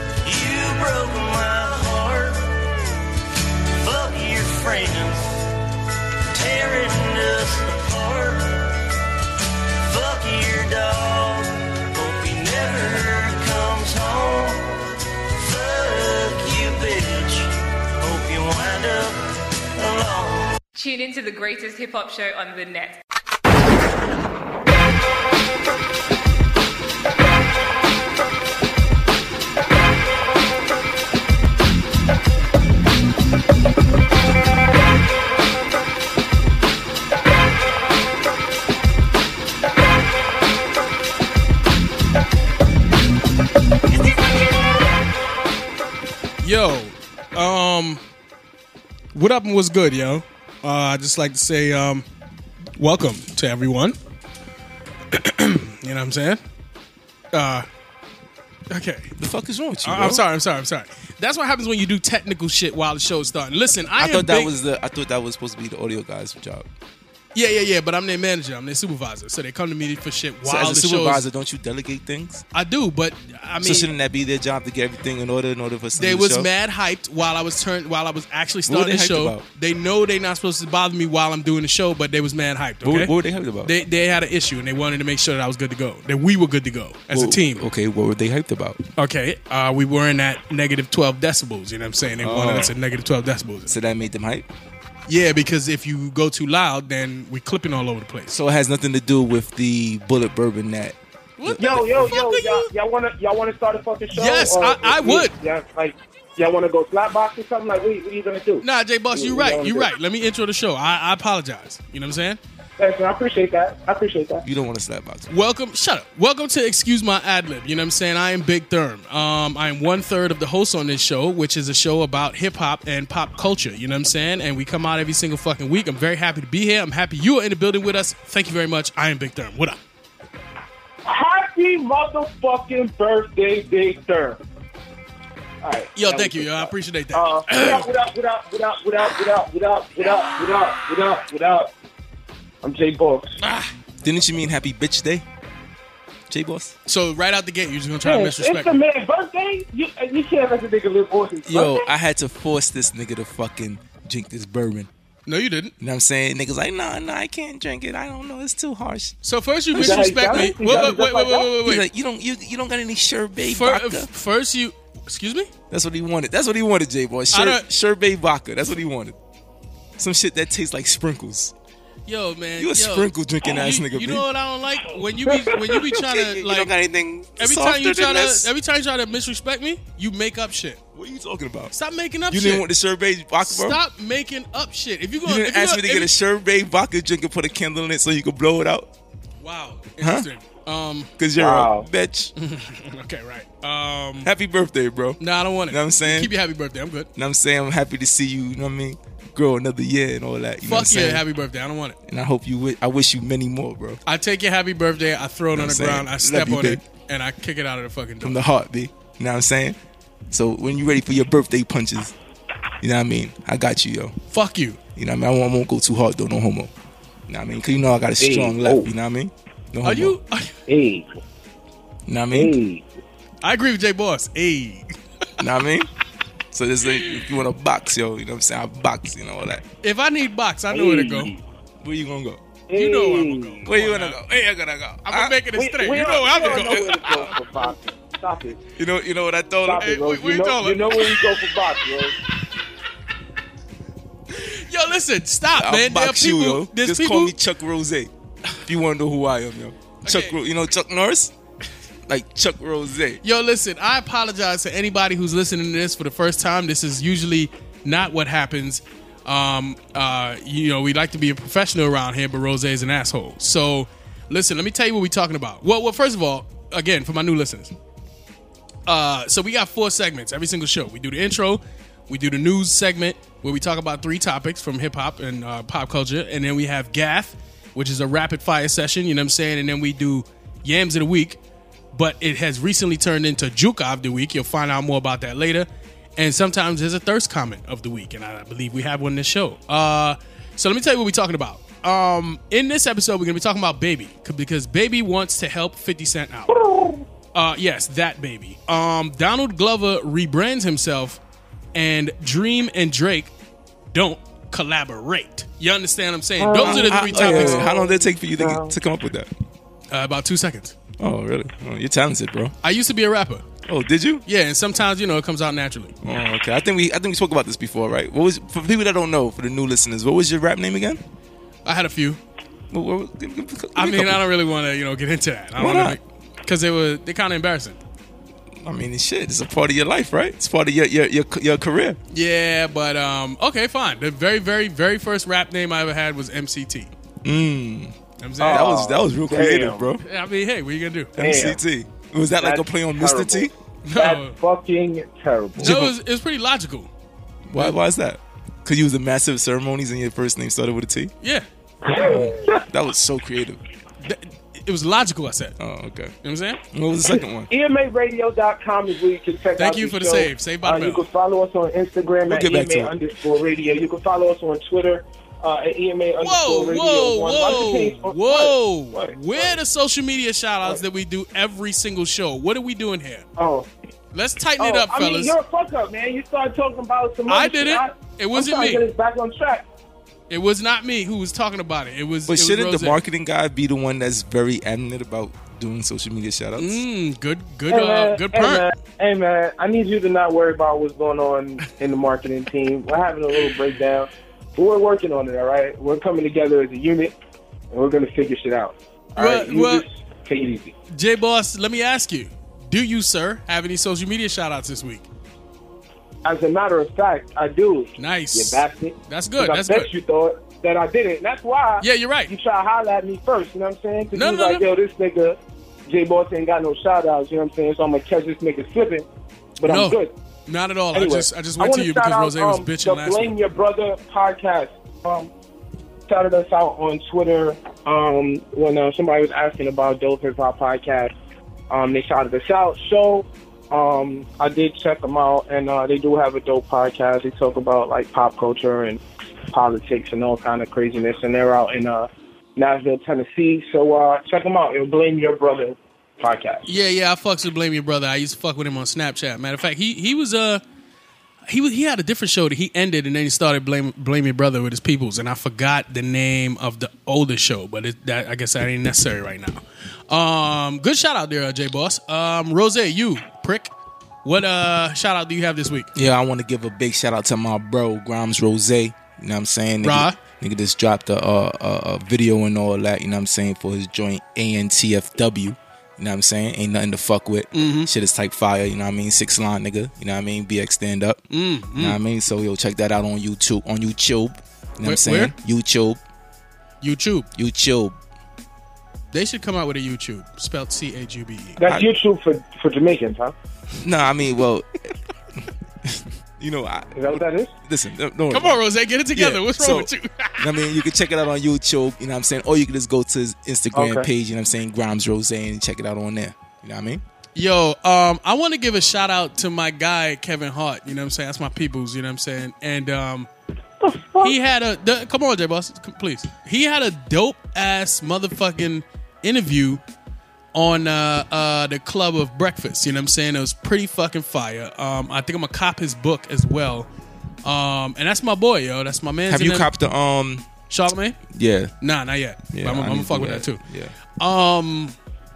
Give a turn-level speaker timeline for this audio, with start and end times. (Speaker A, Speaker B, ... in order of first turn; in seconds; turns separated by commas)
Speaker A: 0.2-2.6, Speaker A: 3.6-5.5, Speaker A: 6.3-8.8, Speaker A: 9.7-14.7, Speaker A: 15.2-20.6, Speaker B: 20.8-23.0, Speaker C: 46.4-48.0, Speaker C: 49.1-52.0, Speaker C: 52.8-54.0, Speaker C: 55.1-56.4, Speaker C: 57.3-57.6, Speaker C: 58.7-59.1, Speaker D: 59.2-60.2, Speaker C: 59.8-64.5, Speaker D: 64.0-66.7, Speaker C: 67.3-71.2, Speaker D: 70.4-72.4, Speaker C: 72.5-73.9, Speaker D: 73.6-76.5, Speaker C: 75.9-83.1, Speaker D: 78.7-79.4, Speaker D: 82.8-83.7, Speaker C: 83.6-87.7, Speaker D: 87.1-88.8, Speaker C: 89.0-93.7, Speaker D: 92.2-92.7, Speaker D: 93.7-94.5, Speaker C: 95.1-98.3, Speaker D: 98.3-102.1, Speaker C: 101.4-102.7, Speaker E: 101.6-109.9, Speaker C: 104.1-105.3, Speaker C: 108.6-112.4, Speaker E: 112.8-114.4, Speaker D: 114.4-115.3, Speaker C: 115.3-129.8, Speaker E: 131.0-134.4, Speaker E: 135.6-141.7, Speaker C: 135.9-137.9, Speaker E: 142.6-143.3, Speaker C: 143.4-143.7, Speaker D: 144.0-145.2, Speaker D: 146.3-146.7, Speaker C: 146.9-148.8, Speaker E: 148.0-151.8, Speaker D: 151.4-154.9, Speaker C: 155.2-155.7, Speaker D: 155.8-159.1, Speaker C: 159.2-161.8, Speaker D: 159.7-161.0, Speaker E: 159.7-161.5, Speaker D: 161.6-164.1, Speaker C: 163.4-165.5, Speaker D: 165.7-169.2, Speaker C: 167.3-167.6, Speaker D: 170.0-171.5, Speaker C: 172.1-176.7, Speaker D: 172.6-174.2, Speaker D: 175.7-178.5, Speaker C: 177.4-180.8, Speaker D: 180.9-181.7, Speaker C: 181.7-182.7, Speaker D: 182.3-183.8, Speaker C: 183.4-186.1, Speaker D: 185.2-188.9, Speaker C: 189.4-191.1, Speaker D: 190.0-190.3, Speaker D: 191.2-192.3, Speaker E: 191.4-191.9, Speaker C: 192.4-194.3, Speaker D: 194.2-196.3, Speaker C: 195.2-197.1, Speaker D: 197.2-201.2, Speaker C: 200.6-202.0, Speaker D: 202.1-204.0, Speaker C: 204.1-208.4, Speaker D: 205.5-206.8, Speaker D: 208.2-209.8, Speaker D: 210.3-212.1, Speaker D: 212.8-214.2, Speaker C: 214.3-214.8, Speaker D: 214.9-216.7, Speaker D: 217.3-220.2, Speaker E: 218.2-218.9, Speaker C: 219.8-220.6, Speaker E: 220.7-221.2, Speaker D: 222.1-222.6, Speaker E: 222.3-222.8, Speaker C: 223.4-225.4, Speaker D: 225.4-225.9, Speaker D: 226.5-229.6, Speaker C: 229.8-231.3, Speaker E: 230.7-231.4, Speaker D: 231.8-232.4, Speaker E: 232.7-233.7, Speaker C: 232.7-234.2, Speaker D: 233.6-235.4, Speaker C: 235.0-237.2, Speaker E: 235.5-238.6, Speaker D: 236.4-237.5, Speaker D: 238.8-240.0, Speaker E: 239.6-242.1, Speaker C: 239.8-241.3, Speaker C: 244.3-247.3, Speaker D: 245.6-248.1, Speaker D: 248.6-251.3, Speaker C: 250.0-250.4, Speaker D: 252.1-253.2, Speaker C: 253.2-267.7, Speaker C: 268.9-281.4, Speaker C: 281.9-296.5, Speaker E: 296.5-297.0, Speaker C: 297.3-301.2, Speaker C: 301.7-303.3, Speaker C: 303.9-307.7, Speaker E: 306.4-308.8, Speaker D: 306.6-309.3, Speaker C: 309.9-310.8, Speaker D: 311.0-312.5, Speaker C: 312.6-313.4, Speaker D: 313.6-314.2, Speaker C: 314.2-315.9, Speaker D: 316.0-321.0, Speaker C: 321.6-322.2, Speaker D: 322.7-324.2, Speaker C: 323.7-327.8, Speaker D: 325.6-326.0, Speaker D: 328.6-332.0, Speaker C: 332.1-336.9, Speaker D: 337.2-340.0, Speaker C: 338.2-338.7, Speaker E: 338.4-339.9, Speaker C: 340.0-341.2, Speaker E: 341.2-341.6, Speaker D: 341.2-343.5, Speaker E: 342.4-345.8, Speaker C: 343.8-344.4, Speaker D: 345.6-345.9, Speaker C: 345.6-346.9, Speaker D: 347.5-351.1, Speaker E: 351.8-352.6, Speaker D: 351.9-353.6, Speaker C: 354.0-355.6, Speaker D: 355.6-356.1, Speaker C: 356.2-356.6, Speaker D: 356.7-357.5, Speaker E: 357.1-369.6, Speaker C: 359.6-361.0, Speaker D: 362.2-362.9, Speaker C: 366.2-373.2, Speaker E: 373.4-373.7, Speaker C: 374.1-375.4, Speaker E: 374.6-379.6, Speaker C: 377.3-378.9, Speaker C: 380.3-383.0, Speaker D: 382.3-386.8, Speaker C: 386.6-388.6, Speaker E: 387.7-397.1, Speaker E: 397.7-400.7, Speaker C: 399.1-399.9, Speaker C: 400.9-405.1, Speaker E: 406.2-419.1, Speaker C: 408.0-409.9, Speaker C: 411.8-412.3, Speaker C: 414.1-414.6, Speaker E: 419.6-420.1, Speaker C: 419.6-423.3, Speaker E: 420.9-425.3, Speaker E: 426.1-431.1, Speaker E: 431.7-446.7, Speaker C: 446.6-450.6, Speaker C: 451.4-463.7, Speaker C: 464.2-465.9, Speaker D: 465.9-481.2, Speaker C: 469.8-470.2, Speaker C: 477.5-477.9, Speaker C: 481.3-482.0, Speaker D: 481.7-486.0, Speaker C: 484.8-485.3, Speaker C: 486.8-487.3, Speaker D: 487.3-487.9, Speaker C: 489.1-491.6, Speaker E: 491.6-493.3, Speaker D: 493.8-494.9, Speaker D: 495.8-498.6, Speaker E: 496.9-497.5, Speaker C: 498.3-500.5, Speaker D: 499.1-507.0, Speaker E: 503.7-504.1, Speaker C: 507.3-513.3, Speaker E: 513.8-514.3, Speaker C: 514.2-519.8, Speaker C: 520.5-526.9, Speaker C: 527.4-529.7, Speaker D: 529.3-530.5, Speaker C: 530.7-531.2, Speaker D: 531.3-531.7, Speaker C: 531.8-533.6, Speaker D: 532.5-533.9, Speaker C: 534.2-535.0